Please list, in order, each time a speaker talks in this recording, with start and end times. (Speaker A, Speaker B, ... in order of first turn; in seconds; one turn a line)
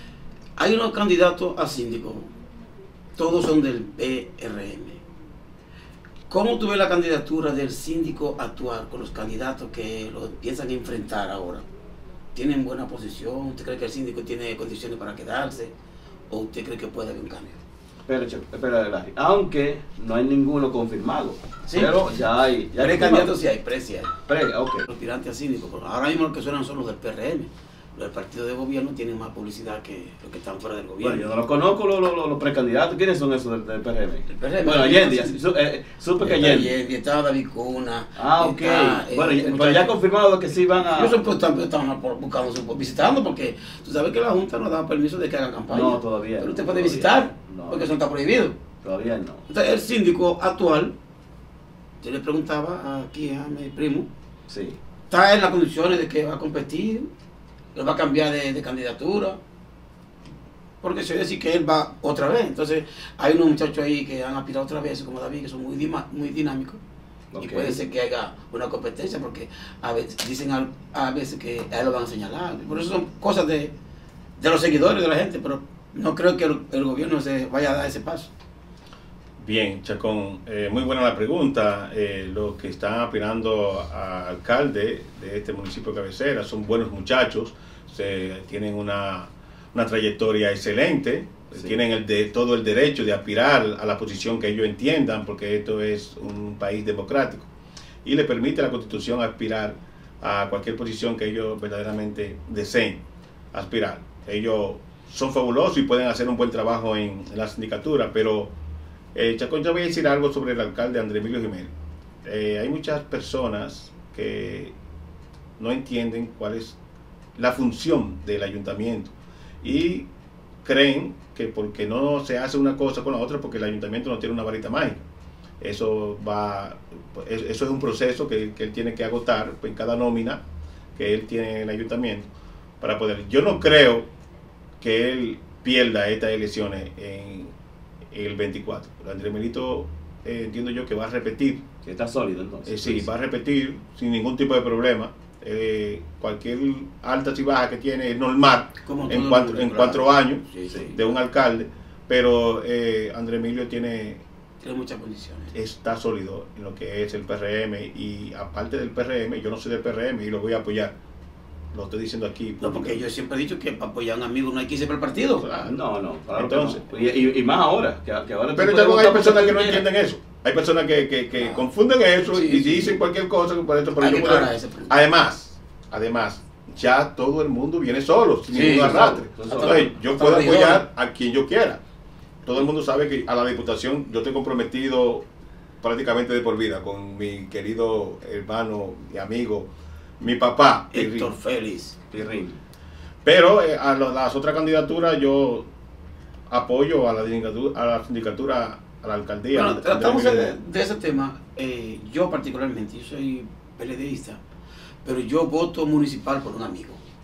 Speaker A: 0.6-2.3
Speaker A: 3.1-5.0
Speaker A: 6.3-11.6
Speaker A: 12.3-15.7
Speaker A: 16.3-17.6
Speaker B: 18.1-23.3
Speaker A: 21.6-21.9
Speaker A: 22.8-24.2
Speaker B: 24.2-24.8
Speaker A: 24.8-31.4
Speaker B: 31.0-36.7
Speaker A: 34.3-35.4
Speaker A: 36.2-39.9
Speaker B: 38.1-41.2
Speaker A: 40.8-48.6
Speaker B: 45.7-47.9
Speaker B: 48.8-49.4
Speaker A: 49.5-50.9
Speaker A: 52.0-54.1
Speaker B: 54.5-54.8
Speaker A: 55.1-57.1
Speaker A: 57.7-59.4
Speaker A: 60.8-66.8
Speaker B: 67.3-67.8
Speaker A: 67.4-73.7
Speaker A: 74.4-78.3
Speaker C: 79.4-97.5
Speaker B: 91.5-91.8
Speaker C: 98.0-103.0
Speaker C: 103.5-108.5
Speaker C: 109.1-111.7
Speaker C: 112.2-114.7
Speaker C: 115.6-116.8
Speaker C: 117.4-120.1
Speaker C: 120.6-125.0
Speaker C: 125.6-130.4
Speaker C: 130.9-132.3
Speaker C: 132.8-134.1
Speaker C: 134.8-137.5
Speaker C: 138.1-141.6
Speaker B: 141.8-143.1
Speaker C: 142.7-154.2
Speaker A: 148.8-150.9
Speaker B: 150.7-150.9
Speaker A: 154.6-155.5
Speaker C: 155.5-160.9
Speaker C: 161.7-163.0
Speaker A: 162.6-165.5
Speaker C: 165.4-165.8
Speaker B: 165.6-169.8
Speaker C: 166.3-166.8
Speaker C: 168.5-181.8
Speaker A: 172.3-173.0
Speaker A: 174.0-174.9
Speaker A: 178.5-180.8
Speaker B: 178.6-179.9
Speaker C: 182.4-185.2
Speaker C: 185.8-191.3
Speaker A: 190.9-192.0
Speaker B: 192.1-192.6
Speaker C: 193.2-195.7
Speaker C: 196.5-200.6
Speaker A: 199.5-204.4
Speaker A: 205.0-207.0